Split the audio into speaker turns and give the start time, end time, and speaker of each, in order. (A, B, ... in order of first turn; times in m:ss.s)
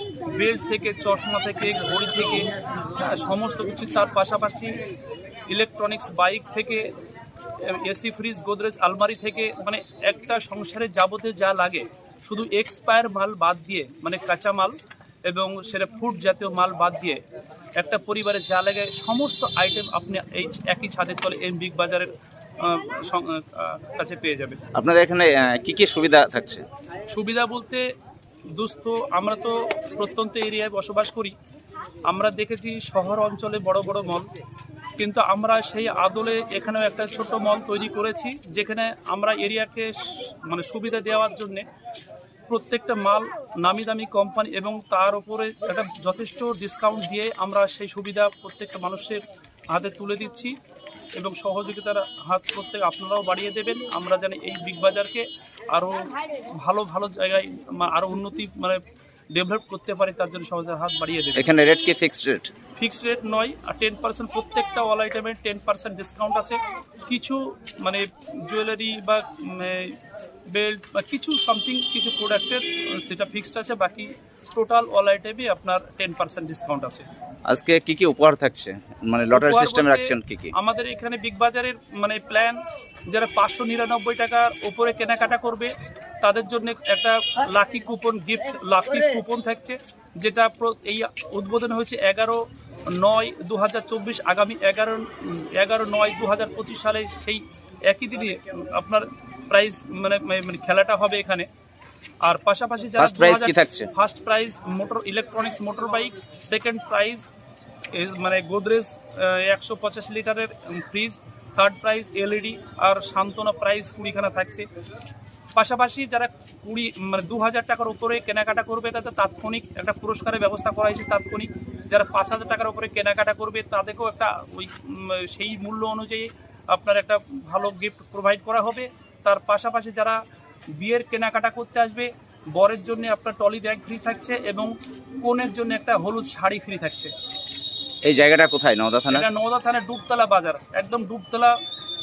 0:00.3-0:04.8 A
0:05.5-0:06.9 A
0:07.6-0:14.8 A
0:15.3-0:17.2 A
0:17.8-0:22.1 A
0:22.6-0:24.6 A
0:24.8-0:26.6 B
0:27.1-0:27.8 A
0:28.6-0:31.4 A
0:32.1-0:34.2 A
0:35.0-0:41.6 A
0:42.5-0:49.2 A
0:49.7-0:50.6 A
0:51.2-0:58.8 A
0:59.3-1:01.5 A
1:01.4-1:02.5 B
1:02.8-1:10.0 A
1:10.5-1:17.1 A
1:17.5-1:20.5 B
1:19.4-1:32.4 A
1:33.0-1:41.5 A
1:42.2-1:47.3 A
1:43.0-1:43.9 B
1:47.9-1:54.7 A
1:55.6-2:10.2 A
2:10.8-2:17.1 A
2:18.0-2:19.3 B
2:19.1-2:21.6 A